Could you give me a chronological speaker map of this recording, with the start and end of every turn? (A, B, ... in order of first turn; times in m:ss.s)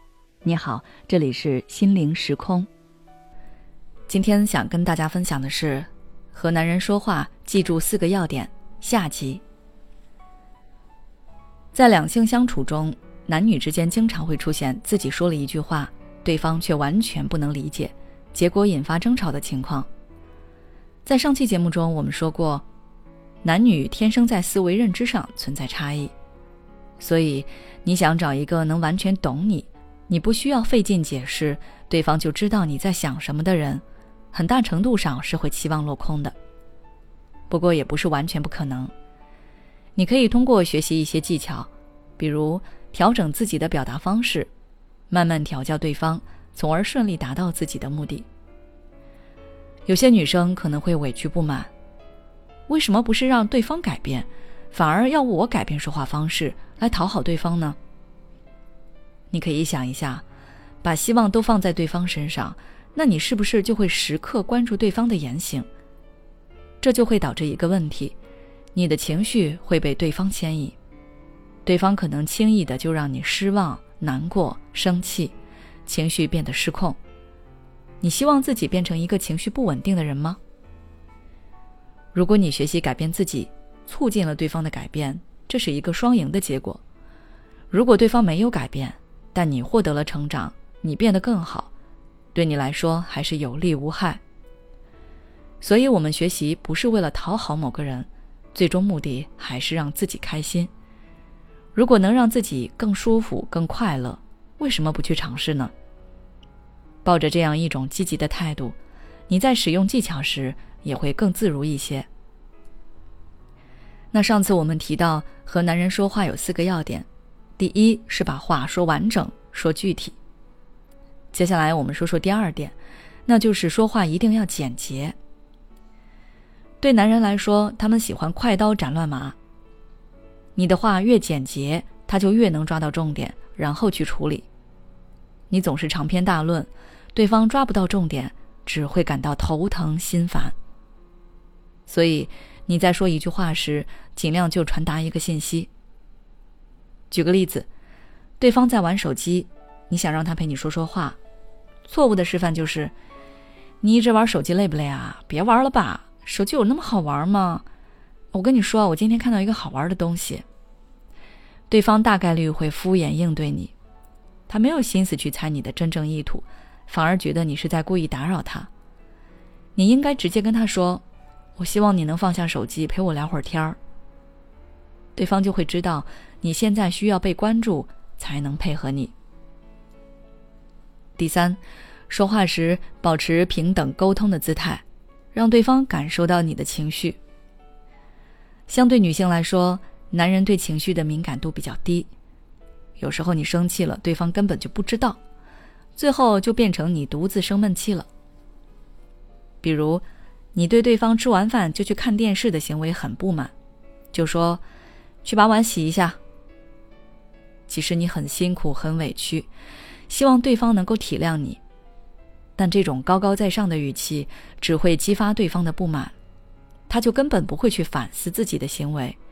0:00.4-0:02.7 A
0:04.1-0:09.4 A
0:11.7-0:19.9 A
0:21.0-0:22.6 A
0:23.4-0:26.1 A
0:27.0-0:36.3 A
0:37.5-0:38.9 A
0:40.0-0:44.5 A
0:45.1-0:48.3 A
0:49.8-0:51.7 A
0:52.7-0:57.8 A
0:59.3-1:00.2 A
1:00.8-1:05.7 A
1:06.8-1:08.2 A
1:08.7-1:10.8 A
1:11.6-1:15.3 A
1:15.8-1:17.0 A
1:18.0-1:20.4 A
1:22.1-1:26.8 A
1:27.7-1:31.7 A
1:32.3-1:34.2 A
1:35.6-1:40.7 A
1:41.7-1:45.7 A
1:47.0-1:48.8 A
1:49.3-1:52.1 A
1:54.1-1:57.0 A
1:57.6-2:00.2 A
2:01.3-2:02.7 A
2:03.2-2:05.2 A
2:06.8-2:09.4 A
2:10.6-2:14.4 A
2:15.5-2:20.5 A
2:21.9-2:25.7 A
2:27.1-2:27.7 A
2:28.4-2:31.2 A
2:31.9-2:32.9 A
2:33.8-2:37.6 A
2:38.3-2:40.4 A
2:41.7-2:43.7 A
2:44.5-2:48.7 A
2:49.8-2:51.0 A
2:51.6-2:53.8 A
2:55.2-2:59.1 A
3:01.2-3:01.6 A
3:02.1-3:04.8 A
3:05.3-3:07.2 A
3:08.7-3:12.1 A
3:13.0-3:15.2 A
3:16.0-3:18.1 A
3:19.6-3:23.5 A
3:24.1-3:24.6 A
3:25.2-3:26.2 A
3:27.7-3:29.5 A
3:30.1-3:31.6 A
3:32.6-3:36.1 A
3:36.9-3:39.2 A